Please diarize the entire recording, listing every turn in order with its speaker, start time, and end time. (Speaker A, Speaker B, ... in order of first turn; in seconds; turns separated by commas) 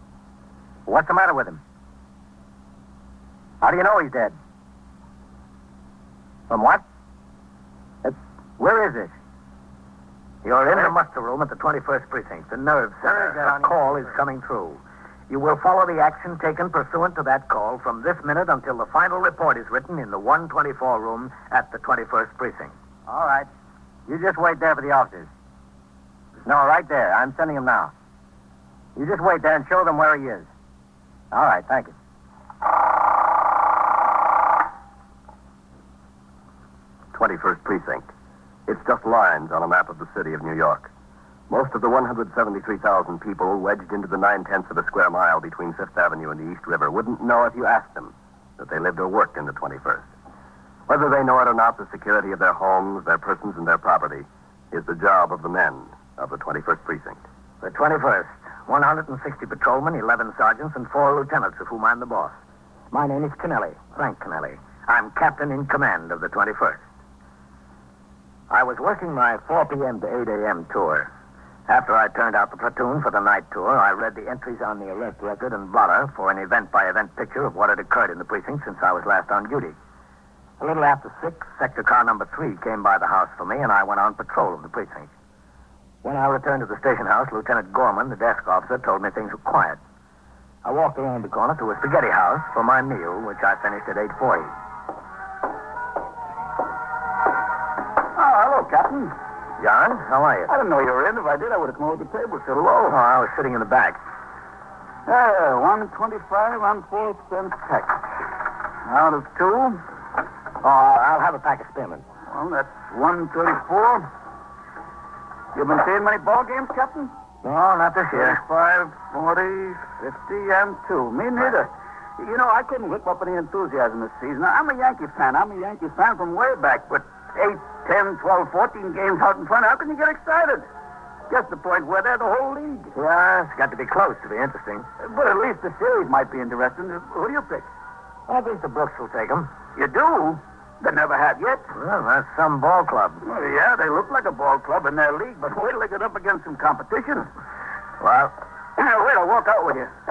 Speaker A: 0.9-1.6, Speaker A: 3.6-4.3, Speaker A: 6.5-6.8, Speaker A: 8.0-9.1, Speaker B: 10.4-22.7, Speaker A: 13.0-14.1, Speaker A: 23.1-23.5, Speaker A: 24.1-25.3, Speaker A: 26.4-27.9, Speaker A: 28.9-30.5, Speaker A: 31.3-31.9, Speaker C: 37.1-38.1, Speaker C: 38.7-40.9, Speaker C: 41.5-50.0, Speaker C: 50.9-57.2, Speaker B: 57.6-62.4, Speaker B: 62.9-66.8, Speaker B: 68.5-71.1, Speaker B: 71.7-79.8, Speaker B: 80.6-85.1, Speaker B: 86.0-89.8, Speaker B: 90.6-94.5, Speaker D: 98.1-99.1, Speaker B: 99.6-100.5, Speaker D: 100.5-103.0, Speaker B: 102.8-104.0, Speaker D: 105.0-108.0, Speaker D: 108.8-109.8, Speaker B: 110.6-112.0, Speaker D: 112.3-114.1, Speaker D: 115.5-117.1, Speaker B: 117.4-118.4, Speaker D: 118.1-130.7, Speaker D: 131.3-132.9, Speaker B: 132.9-134.9, Speaker D: 135.0-137.7, Speaker B: 138.3-139.5, Speaker D: 139.7-141.7, Speaker B: 141.7-143.2, Speaker D: 143.2-147.3, Speaker B: 148.0-148.3, Speaker D: 148.8-149.9